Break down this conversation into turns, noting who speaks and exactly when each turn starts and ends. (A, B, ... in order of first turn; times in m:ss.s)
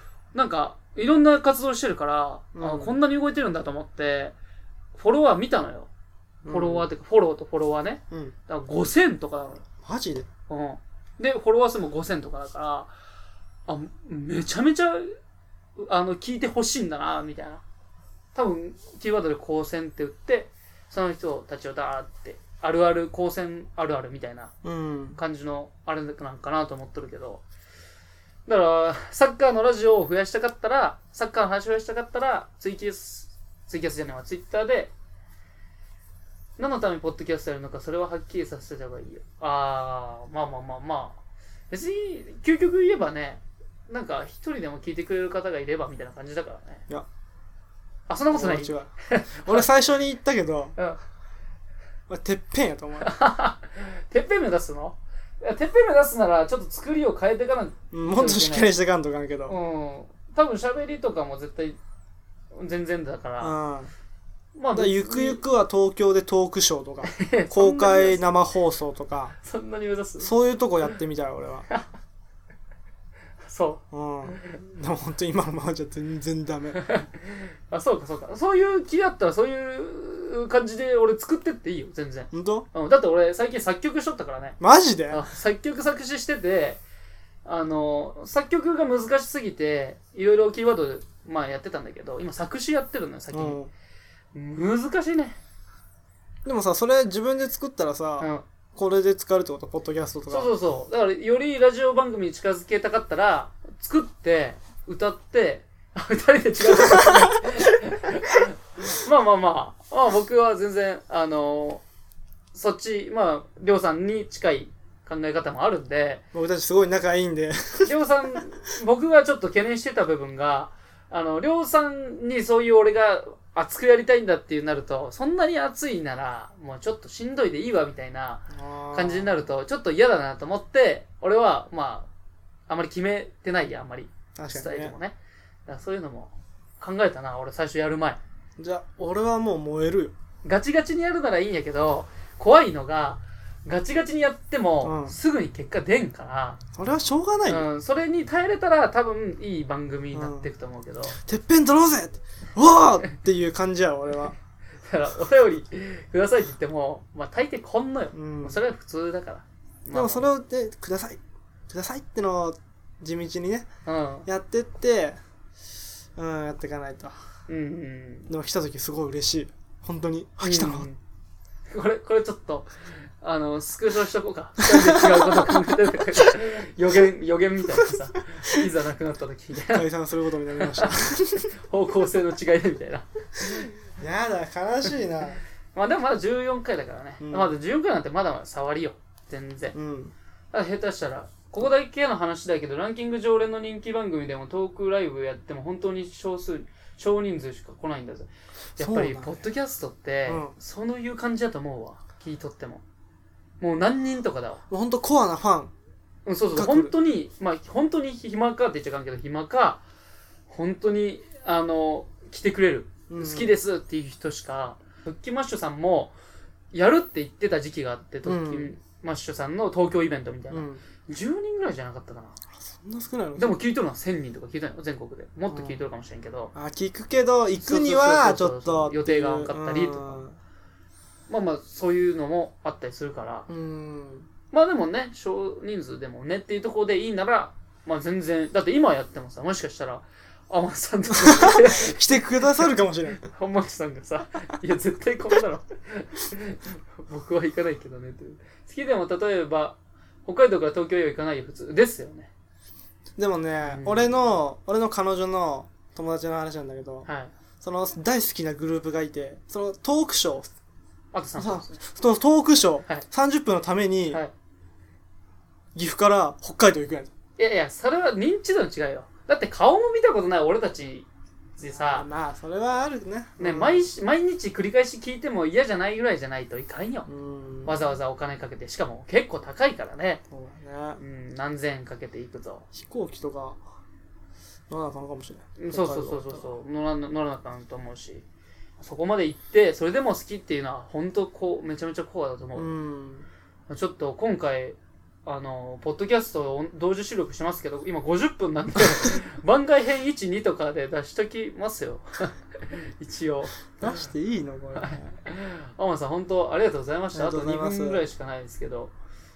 0:00.3-0:04.4 A
0:02.6-0:03.0 B
0:05.0-0:05.9 A
0:06.4-0:06.9 B
0:06.5-0:09.6 A
0:09.8-0:10.3 B
0:10.5-0:12.9 A
0:13.7-0:15.2 A
0:15.8-0:17.6 A
0:18.4-0:24.5 A
0:24.6-0:25.2 B
0:25.2-0:27.4 A
0:28.5-0:34.9 A
0:36.6-0:41.2 A
0:41.7-0:46.8 A
0:48.1-0:49.7 A
0:48.3-0:50.8 B
0:52.1-0:53.1 B
0:53.0-0:58.7 A
0:57.9-0:59.6 B
0:59.5-1:01.8 A
1:02.5-1:03.6 A
1:03.4-1:03.9 B
1:04.6-1:05.4 A
1:04.8-1:09.4 B
1:07.1-1:08.3 A
1:09.4-1:10.3 A
1:10.2-1:11.7 B
1:13.5-1:14.4 A
1:13.9-1:16.8 B
1:16.8-1:24.6 A
1:22.3-1:22.7 B
1:24.6-1:25.2 B
1:25.1-1:26.8 A
1:27.4-1:33.6 A
1:33.3-1:33.7 B
1:34.3-1:35.4 A
1:36.4-1:40.5 B
1:38.2-1:38.5 A
1:40.3-1:51.8 A
1:47.0-1:47.4 B
1:52.5-1:56.2 A
1:56.3-1:57.9 B
1:57.8-2:12.1 A
2:08.5-2:09.3 B
2:12.7-2:15.2 A
2:14.4-2:15.0 B
2:15.7-2:18.2 A
2:18.6-2:20.1 B
2:20.4-2:26.6 A
2:24.8-2:25.2 B
2:26.7-2:27.7 B
2:27.5-2:31.2 A
2:30.1-2:30.5 B
2:31.1-2:34.4 B
2:34.8-2:40.2 A
2:38.1-2:38.6 B
2:39.9-2:41.2 B
2:41.7-2:43.7 B
2:43.8-2:44.3 A
2:44.3-2:45.2 B
2:46.2-2:47.2 B
2:47.5-2:48.3 A
2:48.3-2:50.9 B
2:50.4-2:51.0 A
2:51.7-2:59.9 A
2:54.6-2:55.5 B
2:58.4-2:58.6 B
2:59.7-3:01.5 B
3:00.6-3:01.0 A
3:01.6-3:03.7 A
3:04.0-3:05.4 B
3:05.8-3:09.8 A
3:07.2-3:07.5 B
3:09.7-3:10.1 B
3:10.5-3:22.8 A
3:18.8-3:19.4 B
3:20.3-3:20.6 B
3:23.6-3:24.6 A
3:24.7-3:25.7 B
3:26.2-3:29.8 A
3:26.5-3:26.9 B
3:30.5-3:36.1 A
3:33.1-3:33.6 B
3:36.7-3:42.4 A
3:38.2-3:38.8 B
3:40.5-3:40.8 B
3:42.6-3:43.6 B
3:43.4-3:46.5 A
3:45.5-3:45.8 B
3:46.5-3:50.4 B
3:47.6-3:50.2 A
3:51.3-3:53.5 A
3:53.5-3:54.3 B
3:54.5-4:02.2 A
4:01.1-4:03.3 B
4:03.2-4:12.3 A
4:13.2-4:17.1 B
4:13.6-4:14.1 A
4:17.1-4:17.3 A
4:17.6-4:20.5 B
4:21.1-4:21.8 A
4:21.4-4:24.2 B
4:25.8-4:27.1 B
4:27.4-4:32.1 A
4:31.7-4:33.9 B
4:33.4-4:37.1 A
4:37.1-4:37.8 B
4:37.7-4:40.2 A
4:40.3-4:41.0 B
4:41.0-4:42.7 A
4:42.7-4:43.6 B
4:44.7-4:46.5 B
4:45.6-4:48.2 A
4:48.8-4:52.7 A
4:52.6-4:53.3 B
4:53.7-5:04.0 A
5:03.8-5:05.2 B
5:04.8-5:08.9 A
5:07.1-5:08.0 B